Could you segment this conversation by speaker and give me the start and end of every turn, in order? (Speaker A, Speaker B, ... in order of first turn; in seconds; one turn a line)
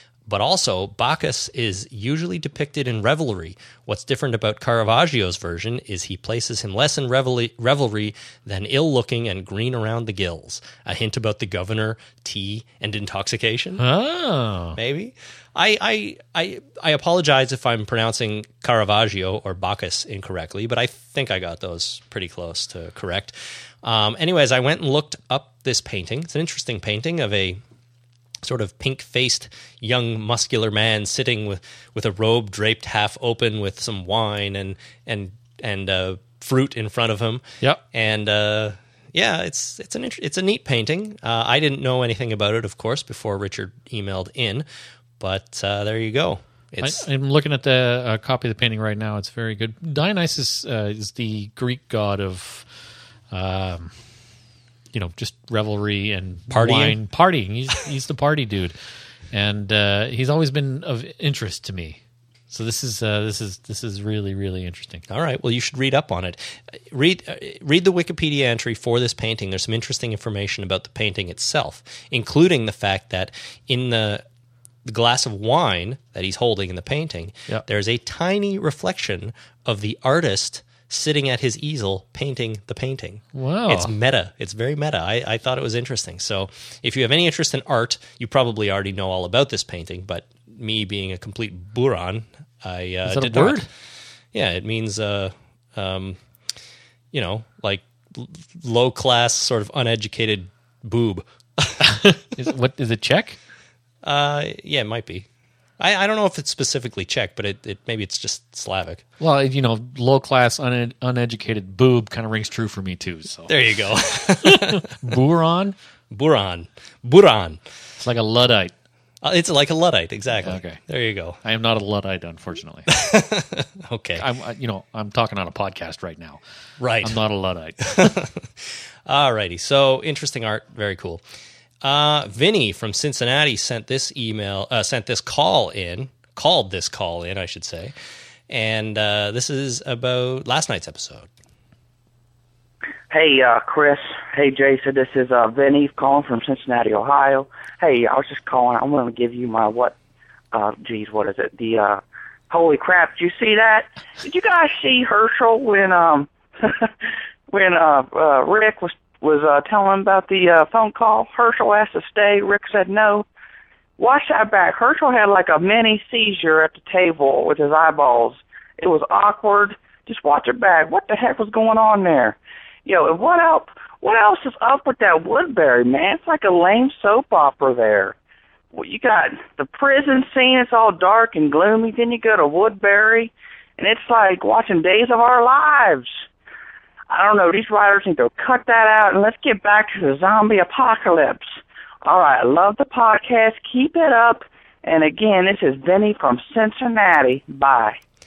Speaker A: 0.3-13.8
Speaker B: 13.8-14.8
Speaker A: 14.7-27.6
Speaker A: 28.4-44.6
Speaker A: 45.2-47.0
Speaker B: 46.8-52.7
Speaker B: 53.3-53.9
Speaker B: 54.9-58.7
Speaker A: 56.5-57.0
Speaker B: 59.3-62.0
Speaker B: 62.5-65.0
Speaker A: 65.1-74.2
Speaker A: 74.8-93.7
Speaker B: 83.3-83.9
Speaker B: 93.1-93.7
Speaker A: 94.3-96.2
Speaker A: 97.1-102.0
Speaker B: 101.8-103.4
Speaker A: 104.0-105.3
Speaker A: 105.8-109.0
Speaker B: 109.2-113.5
Speaker A: 113.5-114.9
Speaker B: 114.4-115.8
Speaker A: 116.1-117.6
Speaker B: 118.0-118.7
Speaker A: 119.2-121.4
Speaker B: 120.4-120.8
Speaker B: 121.4-122.9
Speaker A: 122.9-124.3
Speaker B: 124.2-126.4
Speaker A: 126.8-127.2
Speaker B: 127.0-128.2
Speaker A: 127.8-131.2
Speaker A: 131.8-137.9
Speaker A: 138.5-141.3
Speaker C: 143.1-149.9
Speaker C: 150.5-156.9
Speaker C: 157.5-163.3
Speaker C: 164.0-178.2
Speaker C: 178.7-186.1
Speaker C: 187.1-198.0